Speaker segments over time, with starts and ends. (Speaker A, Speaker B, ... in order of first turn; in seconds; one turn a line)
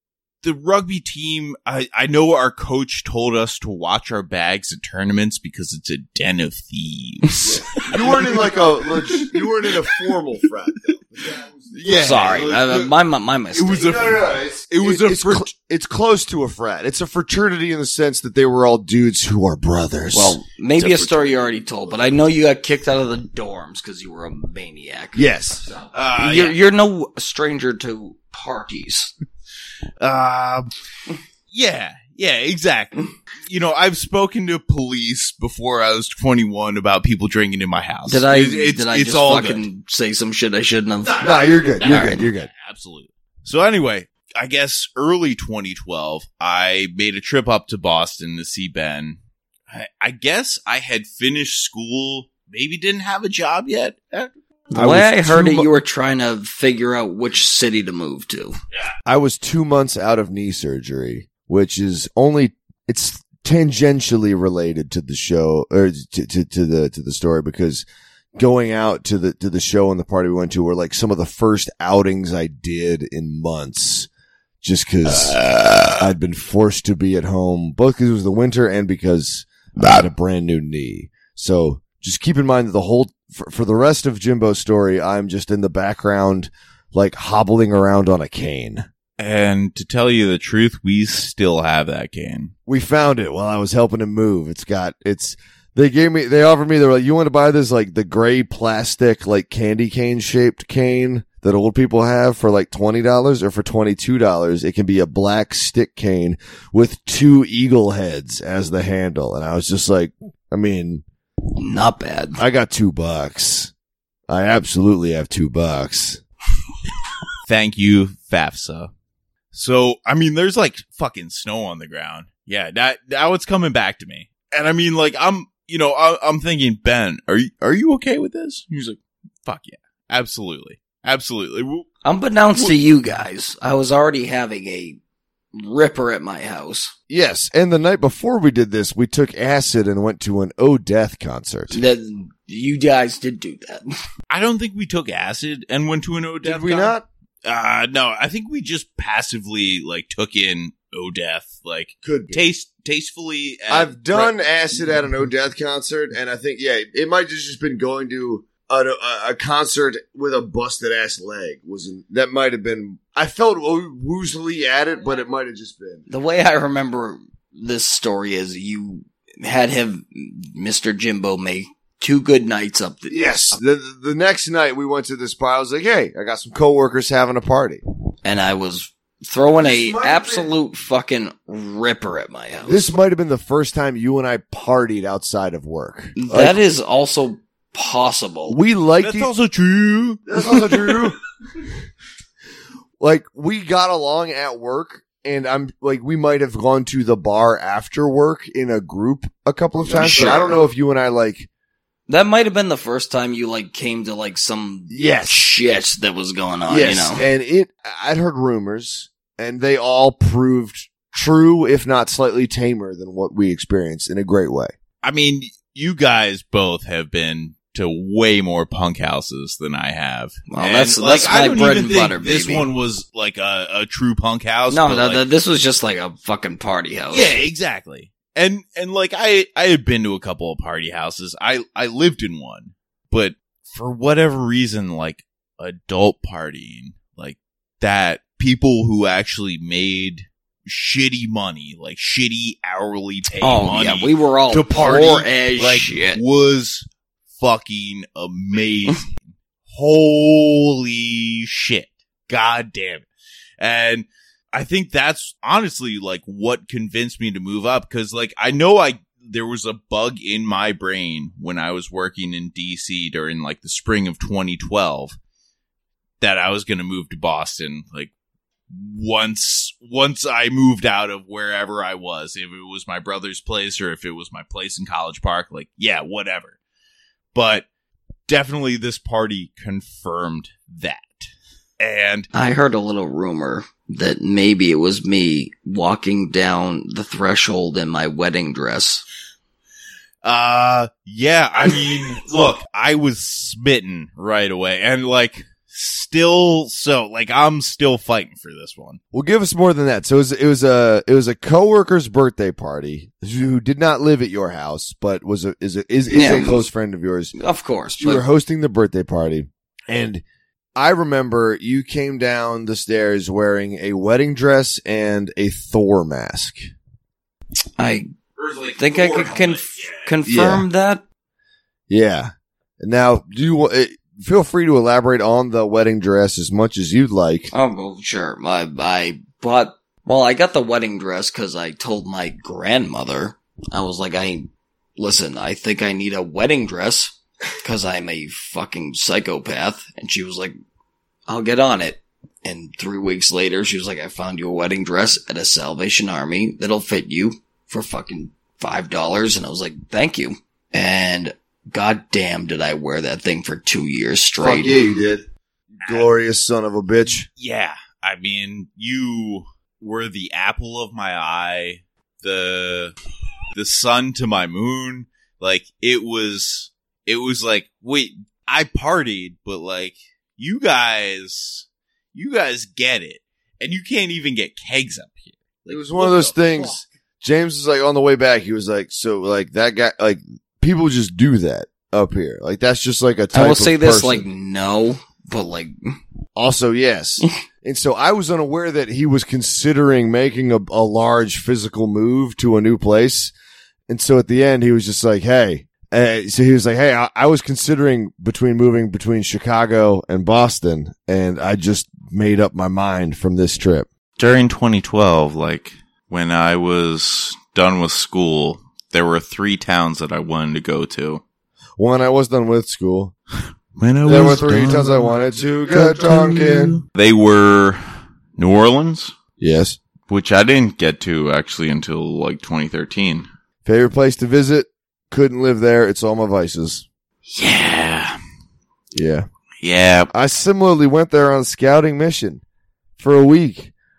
Speaker A: 0.4-10.0
Speaker B: 7.5-12.4
Speaker A: 11.4-12.9
Speaker C: 11.9-14.1
Speaker A: 13.5-15.5
Speaker B: 13.8-20.4
Speaker C: 20.1-25.2
Speaker A: 20.8-21.6
Speaker B: 25.1-25.6
Speaker A: 25.9-26.6
Speaker C: 26.1-29.1
Speaker A: 30.0-30.7
Speaker A: 31.5-39.6
Speaker C: 38.1-41.2
Speaker A: 41.0-49.2
Speaker B: 41.2-42.5
Speaker C: 41.8-42.2
Speaker A: 49.7-54.3
Speaker C: 54.7-58.6
Speaker B: 54.7-55.7
Speaker B: 59.0-67.8
Speaker B: 68.3-74.1
Speaker B: 74.6-75.4
Speaker A: 75.2-75.9
Speaker B: 75.9-88.8
Speaker A: 89.2-92.5
Speaker B: 92.7-111.0
Speaker C: 111.5-112.4
Speaker B: 112.4-113.7
Speaker B: 114.3-116.2
Speaker A: 117.5-118.9
Speaker A: 119.5-131.9
Speaker C: 132.0-135.0
Speaker C: 135.6-136.9
Speaker B: 137.1-141.8
Speaker C: 141.7-143.8
Speaker A: 144.3-154.3
Speaker B: 146.4-147.1
Speaker B: 152.0-152.4
Speaker B: 153.7-166.0
Speaker C: 166.1-173.5
Speaker B: 173.1-177.8
Speaker C: 178.2-182.9
Speaker B: 179.6-180.5
Speaker B: 182.7-186.6
Speaker C: 186.2-188.6
Speaker B: 188.5-189.3
Speaker A: 189.0-190.2
Speaker B: 190.3-191.2
Speaker B: 193.0-201.5
Speaker C: 199.8-200.6
Speaker C: 202.1-207.2
Speaker B: 204.9-205.3
Speaker B: 206.7-214.7
Speaker A: 215.0-225.2
Speaker C: 220.5-222.7
Speaker C: 224.7-227.3
Speaker A: 227.1-246.8
Speaker C: 243.4-246.2
Speaker A: 247.4-253.1
Speaker A: 253.6-265.2
Speaker A: 266.2-268.1
Speaker A: 268.7-276.6
Speaker A: 277.3-277.6
Speaker A: 278.3-282.3
Speaker C: 282.3-289.0
Speaker A: 290.2-299.0
Speaker B: 299.1-307.3
Speaker C: 306.1-306.6
Speaker C: 307.4-308.2
Speaker B: 308.0-310.2
Speaker B: 310.8-316.6
Speaker C: 317.8-318.1
Speaker A: 318.4-320.1
Speaker C: 318.8-321.0
Speaker B: 320.2-320.6
Speaker B: 321.9-327.5
Speaker C: 327.5-340.5
Speaker C: 341.3-354.8
Speaker B: 354.4-357.3
Speaker A: 357.4-362.9
Speaker A: 363.5-376.8
Speaker B: 375.7-384.2
Speaker C: 383.3-385.9
Speaker B: 386.4-393.3
Speaker B: 393.9-403.9
Speaker A: 404.2-411.2
Speaker B: 411.8-413.1
Speaker A: 413.8-415.1
Speaker B: 414.0-416.8
Speaker A: 415.7-417.8
Speaker A: 418.4-419.1
Speaker B: 419.4-419.8
Speaker A: 420.1-423.3
Speaker B: 423.6-426.9
Speaker A: 427.3-428.2
Speaker B: 428.9-429.3
Speaker A: 429.6-430.1
Speaker B: 430.1-432.4
Speaker B: 433.0-433.7